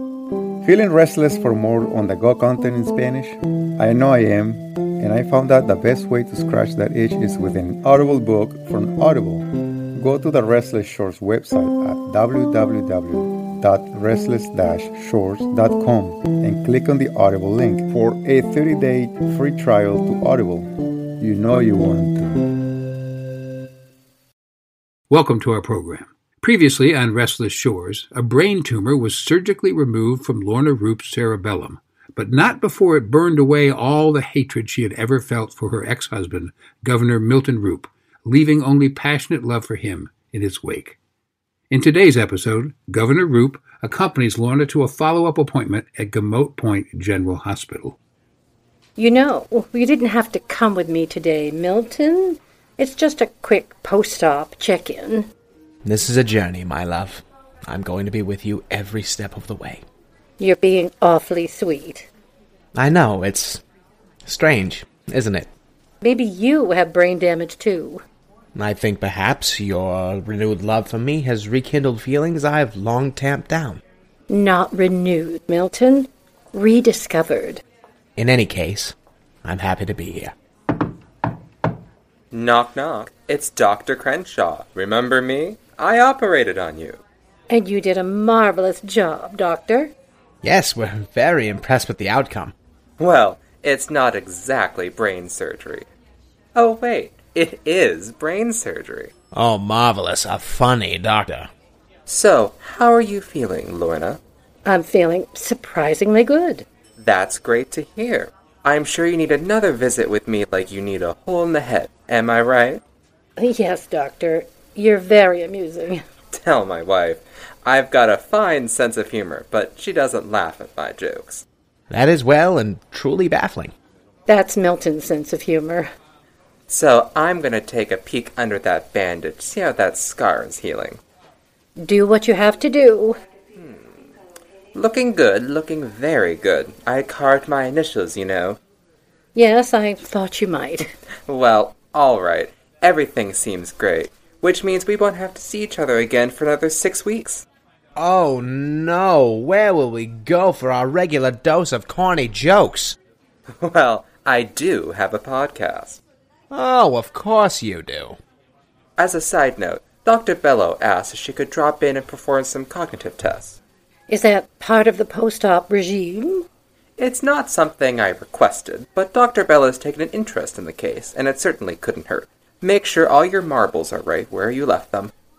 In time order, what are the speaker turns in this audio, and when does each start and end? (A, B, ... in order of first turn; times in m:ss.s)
0:00.6-0:20.7 A
0:21.2-0:22.4 A
0:25.1-0:41.0 B
0:41.7-0:48.0 B
0:49.0-0:55.3 C
0:55.8-0:59.8 D
1:00.4-1:02.1 C
1:02.7-1:03.6 D
1:04.2-1:05.5 D
1:06.0-1:08.0 C
1:08.5-1:13.8 D
1:14.3-1:17.6 C
1:18.2-1:20.3 D
1:22.3-1:27.0 E
1:27.5-1:29.9 C
1:30.4-1:32.5 D
1:33.0-1:35.9 E
1:36.5-1:39.1 E
1:39.3-1:41.5 D
1:42.1-1:44.2 E
1:44.6-1:46.6 C
1:47.0-1:52.8 E
1:53.4-1:56.0 C
1:56.3-2:01.4 E
2:01.9-2:03.7 D
2:04.3-2:05.9 C
2:06.7-2:11.0 E
2:11.8-2:13.2 C
2:13.5-2:13.8 E
2:14.7-2:18.6 E
2:19.3-2:20.9 C
2:21.3-2:27.4 E
2:28.0-2:33.0 D
2:33.6-2:36.0 E
2:36.5-2:38.2 D
2:39.0-2:43.6 E
2:44.1-2:46.4 C
2:47.0-2:55.1 E